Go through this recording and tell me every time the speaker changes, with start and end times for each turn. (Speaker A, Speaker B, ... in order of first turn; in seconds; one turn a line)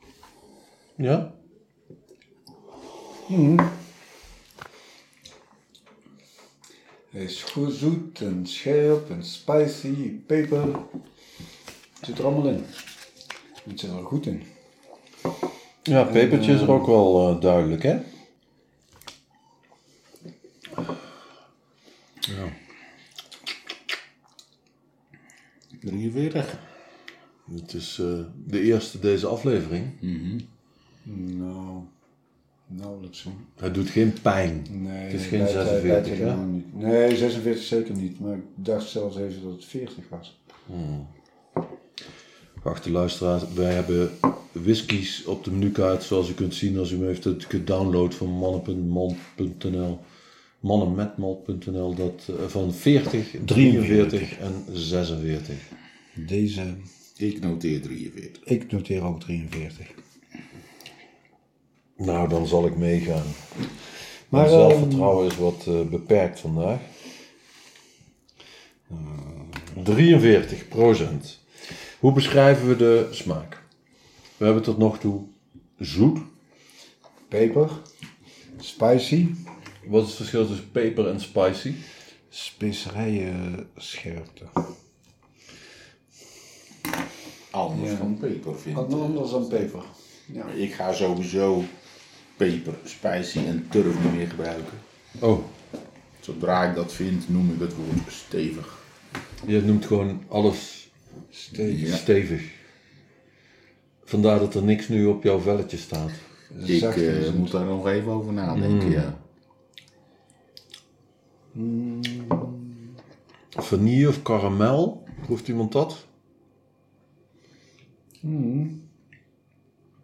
Speaker A: 1.0-1.3
Speaker B: 3.3-3.8
Speaker B: 7.1-10.9
Speaker B: 12.0-12.8
Speaker B: 13.6-14.5
Speaker A: 15.8-18.1
Speaker B: 16.0-16.9
Speaker A: 22.3-22.6
Speaker C: 25.8-26.6
Speaker A: 27.5-30.0
Speaker C: 30.0-30.4
Speaker B: 31.1-31.9
Speaker B: 32.7-33.5
Speaker A: 33.6-36.4
Speaker B: 34.7-40.3
Speaker A: 40.7-41.1
Speaker A: 42.6-50.0
Speaker A: 50.6-55.6
Speaker B: 53.5-54.3
Speaker B: 56.2-56.9
Speaker C: 57.2-58.4
Speaker B: 58.5-59.9
Speaker A: 62.0-63.4
Speaker B: 64.3-65.2
Speaker A: 64.3-66.9
Speaker B: 68.9-69.8
Speaker A: 69.7-71.4
Speaker A: 72.0-73.6
Speaker A: 74.4-76.3
Speaker B: 77.3-77.8
Speaker B: 78.6-79.4
Speaker A: 79.8-81.8
Speaker B: 82.3-84.5
Speaker C: 87.5-89.7
Speaker B: 87.7-88.2
Speaker B: 88.7-90.5
Speaker C: 90.5-91.7
Speaker C: 92.4-94.8
Speaker A: 95.2-95.5
Speaker C: 96.2-98.8
Speaker A: 99.5-100.9
Speaker B: 101.3-102.0
Speaker C: 101.7-102.0
Speaker A: 101.7-102.5
Speaker A: 104.1-106.2
Speaker B: 106.5-107.6
Speaker C: 106.7-109.2
Speaker A: 108.5-109.1
Speaker B: 111.5-112.9
Speaker A: 113.5-116.0
Speaker B: 118.2-118.8